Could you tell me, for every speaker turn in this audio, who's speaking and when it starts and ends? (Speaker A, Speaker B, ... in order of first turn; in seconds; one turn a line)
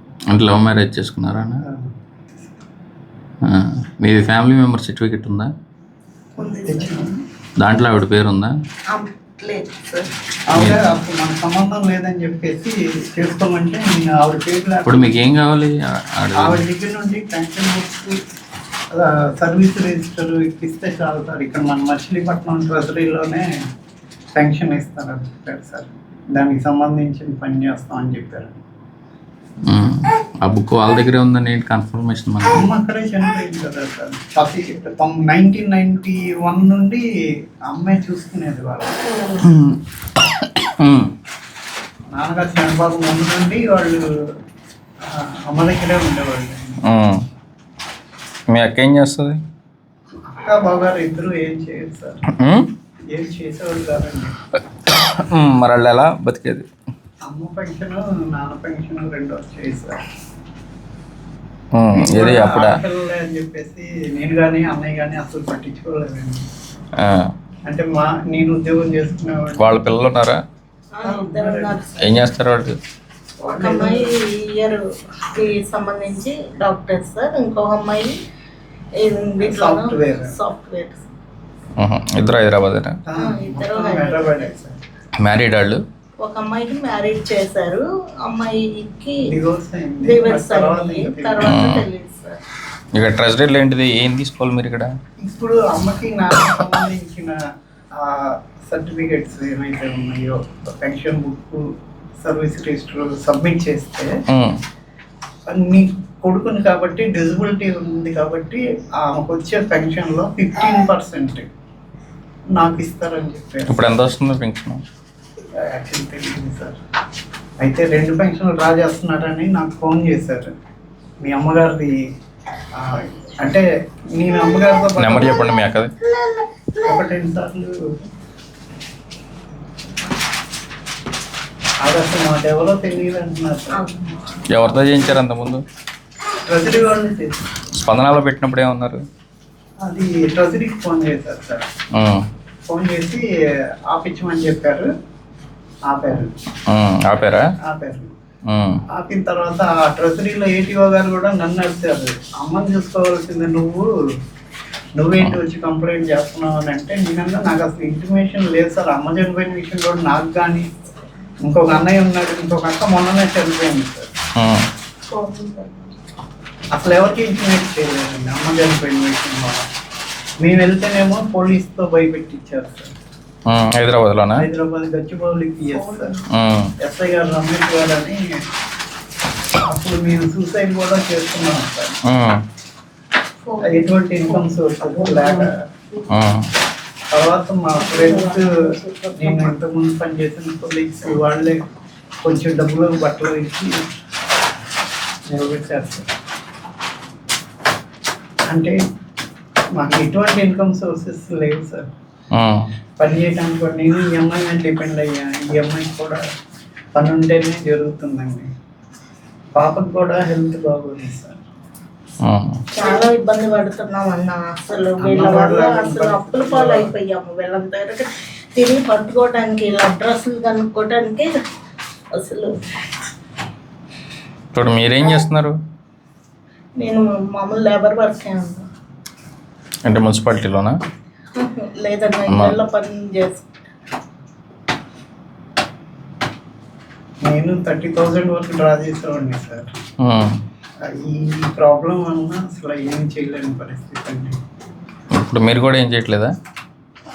Speaker A: 0.3-1.6
Speaker B: 1.6-1.9
Speaker A: 3.4-5.5
Speaker C: 6.4-7.0
Speaker B: 6.4-7.1
Speaker A: 7.6-8.6
Speaker C: 8.9-10.1
Speaker B: 10.5-15.2
Speaker A: 10.6-10.8
Speaker A: 14.8-16.6
Speaker B: 16.4-18.2
Speaker B: 18.9-23.5
Speaker B: 24.4-28.6
Speaker A: 29.7-32.6
Speaker B: 32.5-37.0
Speaker B: 37.7-39.0
Speaker A: 39.4-41.1
Speaker B: 42.1-44.1
Speaker B: 45.1-46.9
Speaker A: 46.8-47.2
Speaker A: 48.5-49.4
Speaker B: 50.3-52.2
Speaker A: 52.4-52.7
Speaker B: 53.1-54.4
Speaker A: 54.9-56.6
Speaker B: 57.2-60.0
Speaker A: 61.8-62.8
Speaker B: 61.9-66.5
Speaker A: 67.0-67.3
Speaker B: 67.7-69.9
Speaker A: 69.6-70.4
Speaker C: 71.0-72.1
Speaker B: 71.0-72.3
Speaker A: 72.0-72.8
Speaker B: 73.4-74.1
Speaker C: 73.5-74.8
Speaker C: 75.3-78.1
Speaker C: 79.0-81.0
Speaker B: 79.4-80.3
Speaker A: 81.8-83.0
Speaker B: 83.1-84.8
Speaker C: 83.2-84.5
Speaker A: 85.2-85.8
Speaker C: 86.2-89.2
Speaker B: 89.3-91.6
Speaker C: 90.0-92.4
Speaker A: 91.4-91.9
Speaker A: 93.0-94.9
Speaker B: 95.2-97.4
Speaker B: 98.0-101.6
Speaker B: 102.2-104.1
Speaker A: 104.3-104.6
Speaker B: 105.5-111.5
Speaker B: 112.5-113.9
Speaker A: 113.7-114.8
Speaker B: 115.6-116.8
Speaker B: 117.6-120.5
Speaker B: 121.2-122.0
Speaker B: 122.8-125.5
Speaker A: 125.0-125.9
Speaker B: 126.8-128.0
Speaker B: 131.8-133.8
Speaker C: 133.8-134.6
Speaker A: 134.5-135.6
Speaker B: 136.5-137.7
Speaker A: 137.7-139.0
Speaker B: 139.8-141.7
Speaker A: 141.9-142.2
Speaker B: 142.7-143.2
Speaker B: 143.9-144.9
Speaker B: 145.9-146.4
Speaker A: 146.7-147.4
Speaker B: 147.6-148.1
Speaker A: 148.5-148.8
Speaker B: 148.9-153.9
Speaker B: 155.0-160.7
Speaker B: 161.5-164.1
Speaker A: 164.4-164.7
Speaker C: 165.1-165.9
Speaker B: 166.8-169.7
Speaker B: 170.4-172.9
Speaker A: 173.5-174.4
Speaker B: 174.4-176.1
Speaker C: 175.7-176.3
Speaker A: 176.3-176.7
Speaker B: 176.8-178.4
Speaker B: 179.6-182.0
Speaker A: 182.1-182.4
Speaker C: 183.4-186.1
Speaker B: 183.6-185.6
Speaker A: 186.1-186.5
Speaker B: 187.1-188.6
Speaker C: 187.8-189.5
Speaker B: 189.2-191.6
Speaker B: 192.2-193.8
Speaker B: 195.3-196.1
Speaker B: 198.5-198.8
Speaker B: 199.8-201.8
Speaker A: 202.3-202.7
Speaker B: 203.0-206.2
Speaker B: 206.9-208.5
Speaker B: 209.6-211.4
Speaker A: 212.2-212.6
Speaker C: 212.7-221.3
Speaker B: 215.0-216.9
Speaker C: 222.2-222.5
Speaker A: 224.5-225.6
Speaker C: 226.8-228.7
Speaker A: 229.8-230.8
Speaker C: 231.4-233.4
Speaker A: 232.3-232.6
Speaker B: 237.2-239.7
Speaker A: 240.0-240.4
Speaker B: 240.8-244.4
Speaker A: 245.2-246.3